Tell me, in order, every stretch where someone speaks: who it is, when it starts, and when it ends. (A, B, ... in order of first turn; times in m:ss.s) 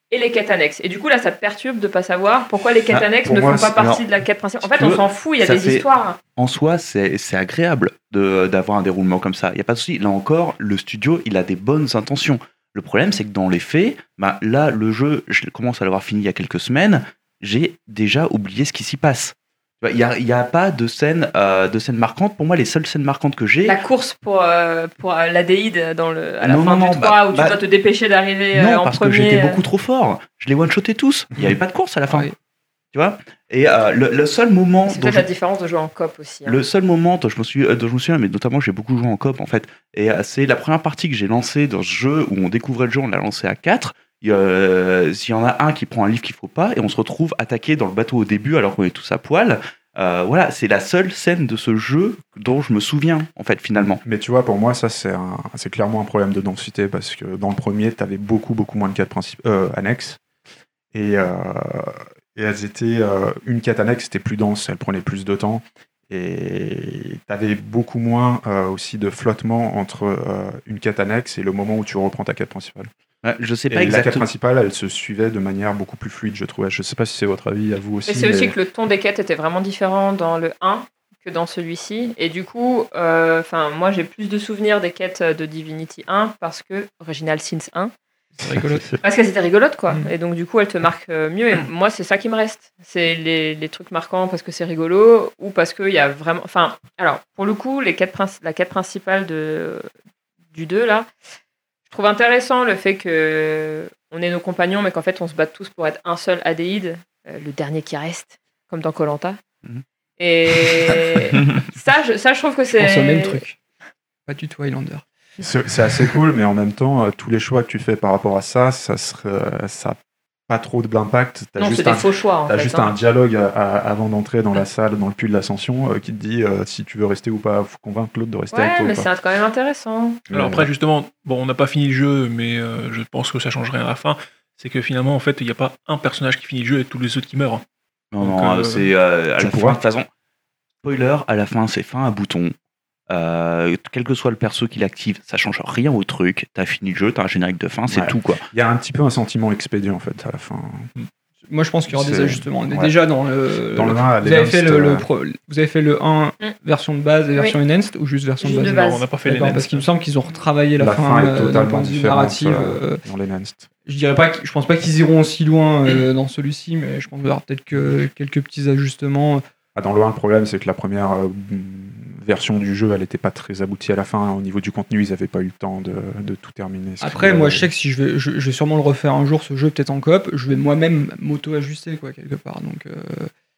0:00.1-0:06.2 A
0:03.2-0:03.7 B
0:03.8-0:04.0 C
0:04.6-0:05.8 C
0:06.4-0:23.8 C
0:23.6-0:29.6 A
0:26.4-0:27.6 C
0:28.5-0:32.3 C
0:32.1-0:32.3 D
0:32.9-0:35.2 C
0:34.9-0:36.6 A
0:36.4-0:54.0 C
0:53.8-1:00.2 B
1:00.9-1:12.9 B
1:13.2-1:14.2 C
1:13.7-1:18.5 B
1:18.0-1:27.9 A
1:28.4-1:28.9 D
1:28.7-1:28.9 B
1:29.0-1:39.9 A
1:40.5-1:41.1 A
1:41.9-1:49.4 A
1:50.2-1:53.4 A
1:51.3-1:51.6 C
1:52.7-1:53.6 D
1:54.3-1:55.0 D
1:55.4-2:09.1 B
2:01.6-2:02.9 A
2:08.5-2:10.2 A
2:10.3-2:10.7 B
2:10.3-2:17.6 E
2:18.1-2:20.1 C
2:18.2-2:18.9 E
2:19.4-2:19.8 B
2:20.8-2:22.5 C
2:23.1-2:28.4 C
2:27.9-2:30.9 B
2:31.5-2:43.0 D
2:31.9-2:32.9 B
2:33.7-2:35.0 B
2:38.4-2:39.1 A
2:38.5-2:39.9 E
2:40.8-2:43.7 B
2:43.8-2:49.4 D
2:49.7-2:57.7 B
2:57.0-3:03.3 D